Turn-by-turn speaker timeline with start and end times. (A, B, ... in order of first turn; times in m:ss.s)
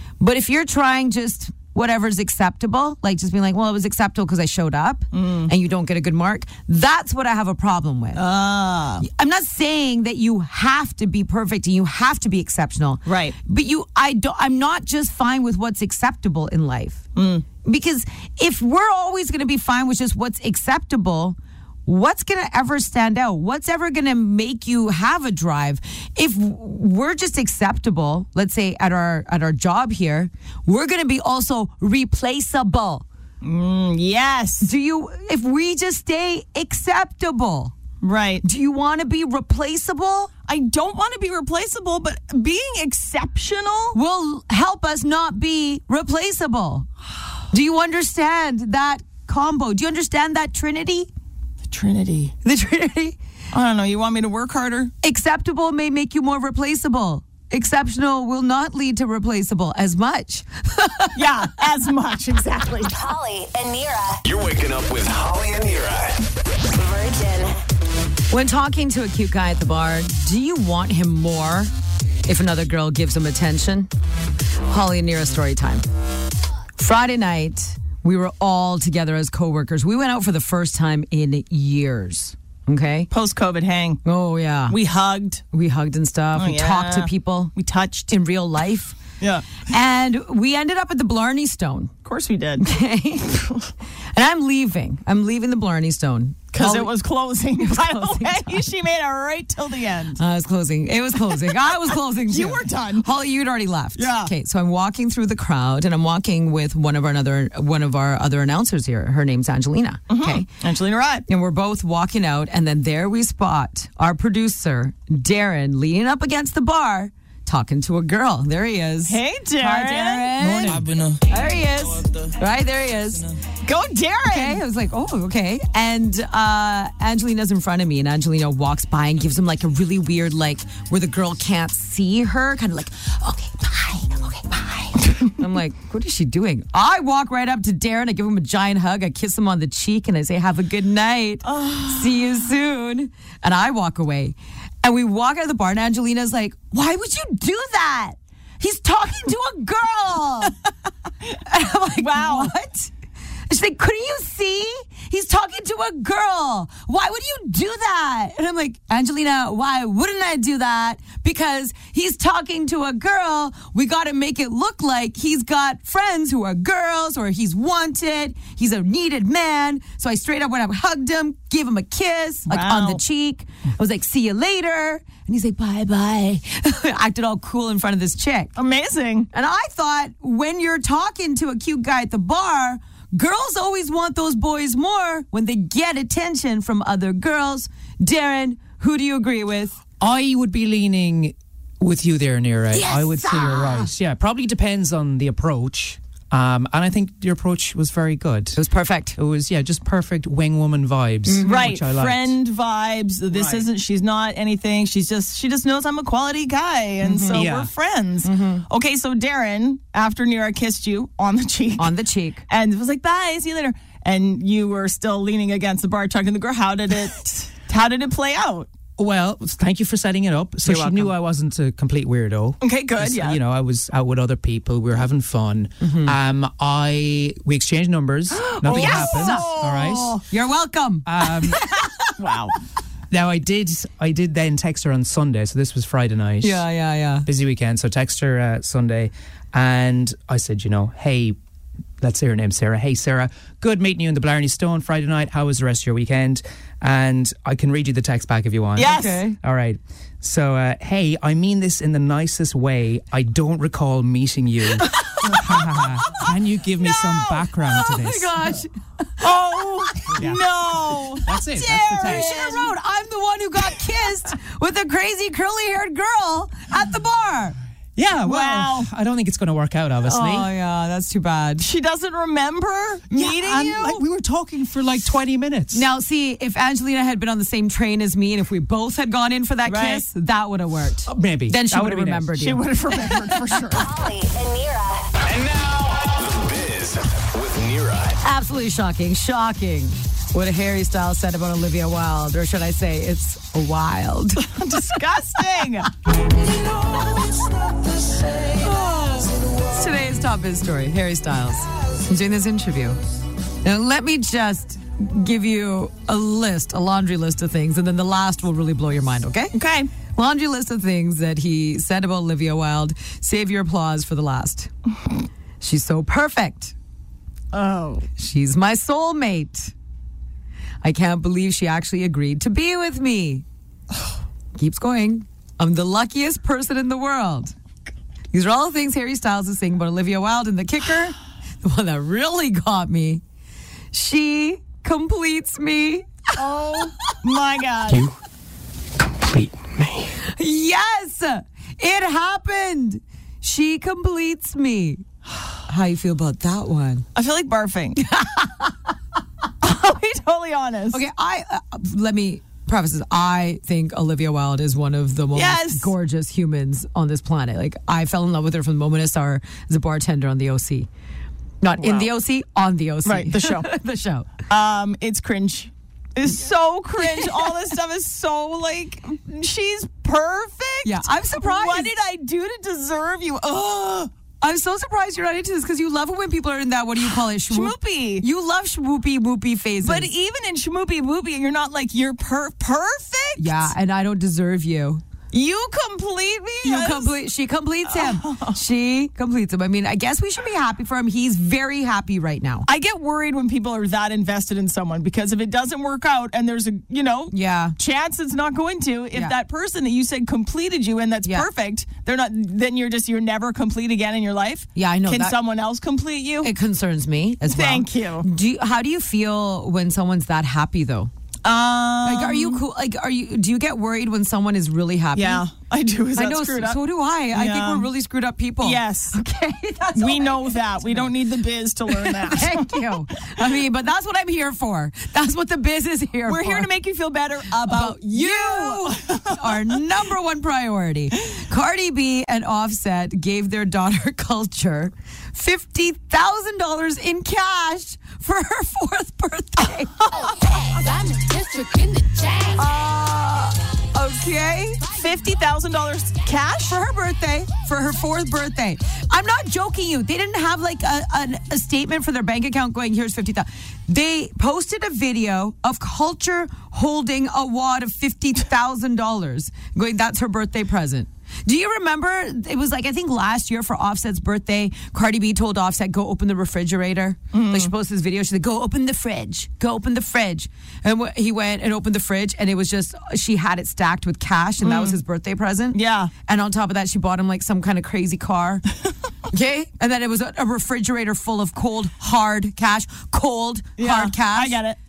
0:00.2-0:08.2 A
0:05.1-0:05.5 B
0:08.1-0:09.0 B
0:09.0-0:17.0 A
0:13.0-0:13.4 B
0:17.1-0:17.4 B
0:17.6-0:33.0 A
0:33.4-0:34.7 B
0:34.6-0:37.7 A
0:38.0-0:38.4 B
0:38.4-0:40.3 A
0:40.5-0:44.0 B
0:43.9-0:46.9 A
0:47.5-0:51.1 A
0:51.7-0:52.3 B
0:52.4-0:53.2 A
0:53.5-0:54.9 B
0:55.0-1:01.3 A
1:01.1-1:02.9 B
1:02.9-1:04.2 C
1:04.2-1:06.2 D
1:06.7-1:07.5 C
1:08.3-1:11.7 A
1:12.2-1:13.9 A
1:14.6-1:15.8 A
1:16.8-1:23.1 A
1:23.1-1:24.0 B
1:24.0-1:24.8 A
1:24.7-1:25.4 B
1:25.5-1:27.5 A
1:26.3-1:28.1 B
1:28.1-1:29.0 A
1:29.2-1:29.5 B
1:29.7-1:31.9 A
1:32.0-1:32.7 B
1:32.6-1:33.5 A
1:34.1-1:36.9 A
1:36.5-1:40.2 B
1:37.6-1:38.6 A
1:40.2-1:50.5 A
1:41.3-1:43.1 B
1:44.0-1:44.3 B
1:50.1-1:51.2 B
1:51.3-2:03.3 A
1:59.1-2:00.6 B
2:00.5-2:00.9 E
2:03.6-2:04.6 B
2:04.3-2:30.5 A
2:21.4-2:22.2 B
2:31.4-2:32.9 A
2:31.9-2:32.5 B
2:33.5-2:58.5 A
2:52.5-2:53.0 B
2:58.6-2:59.3 B
2:59.3-3:09.8 A
3:10.0-3:18.6 E
3:12.7-3:13.9 A
3:18.5-3:19.2 A
3:19.2-3:22.3 E
3:21.2-3:21.7 A
3:21.4-3:31.9 B
3:23.3-3:23.6 E
3:27.0-3:27.4 A
3:27.3-3:27.7 E
3:28.2-3:28.6 A
3:31.8-3:32.4 A
3:32.5-3:38.7 B
3:39.0-3:50.2 E
3:40.6-3:41.1 A
3:42.6-3:43.4 B
3:45.8-3:46.1 A
3:48.4-3:49.6 A
3:48.5-3:50.2 B
3:50.2-3:52.1 A
3:51.0-3:51.6 E
3:52.2-3:52.6 B
3:53.1-3:56.6 E
3:56.4-3:57.3 A
3:57.2-4:01.4 E
4:02.0-4:18.5 E
4:08.8-4:09.2 B
4:08.8-4:09.4 A
4:16.8-4:17.5 B
4:17.7-4:20.1 A
4:19.2-4:22.7 B
4:20.2-4:22.5 E
4:21.5-4:27.6 A
4:28.0-4:30.5 E
4:28.2-4:28.9 B
4:30.0-4:31.7 A
4:31.6-4:34.0 B
4:33.2-4:35.8 E
4:35.7-4:42.6 A
4:39.6-4:40.0 B
4:41.1-4:42.3 E
4:42.4-4:43.9 B
4:43.7-4:45.1 C
4:45.2-4:48.2 D
4:48.2-4:54.6 A
4:54.4-4:55.9 B
4:56.7-4:57.4 A
4:58.4-5:03.0 A
5:03.6-5:09.5 A
5:09.5-5:09.9 B
5:10.1-5:14.7 A
5:15.6-5:16.7 A
5:17.5-5:18.1 B
5:18.2-5:19.7 A
5:20.8-5:23.4 A
5:24.6-5:27.5 A
5:28.3-5:33.2 A
5:33.9-5:36.9 A
5:36.4-5:38.1 B
5:40.3-5:45.0 A
5:45.7-5:47.0 A
5:47.1-5:48.0 B
5:48.0-5:48.7 A
5:49.6-5:51.0 B
5:50.9-6:00.9 A
5:55.3-5:55.9 B
6:01.6-6:04.3 A
6:01.8-6:02.1 B
6:03.0-6:03.7 B
6:04.5-6:14.1 B
6:10.8-6:11.9 A
6:14.4-6:20.1 A
6:17.0-6:18.2 B
6:19.8-6:23.7 B
6:23.4-6:25.0 A
6:25.3-6:27.1 B
6:26.6-6:32.7 A
6:27.9-6:28.6 B
6:32.6-6:46.5 B
6:37.3-6:37.7 A
6:44.7-6:45.4 A
6:46.4-6:51.1 A
6:47.5-6:48.3 B
6:51.4-6:52.6 B
6:52.0-6:55.4 A
6:55.1-6:57.9 B
6:56.2-7:01.1 A
6:58.6-6:59.2 B
6:59.9-7:02.9 B
7:01.9-7:06.7 A
7:06.2-7:09.8 B
7:07.6-7:20.3 A
7:22.5-7:24.9 A
7:24.9-7:26.8 B
7:26.7-7:58.6 A
7:47.3-7:47.7 B
7:54.6-7:55.0 B
7:55.7-7:56.1 B
7:59.3-8:04.6 A
8:03.8-8:04.8 B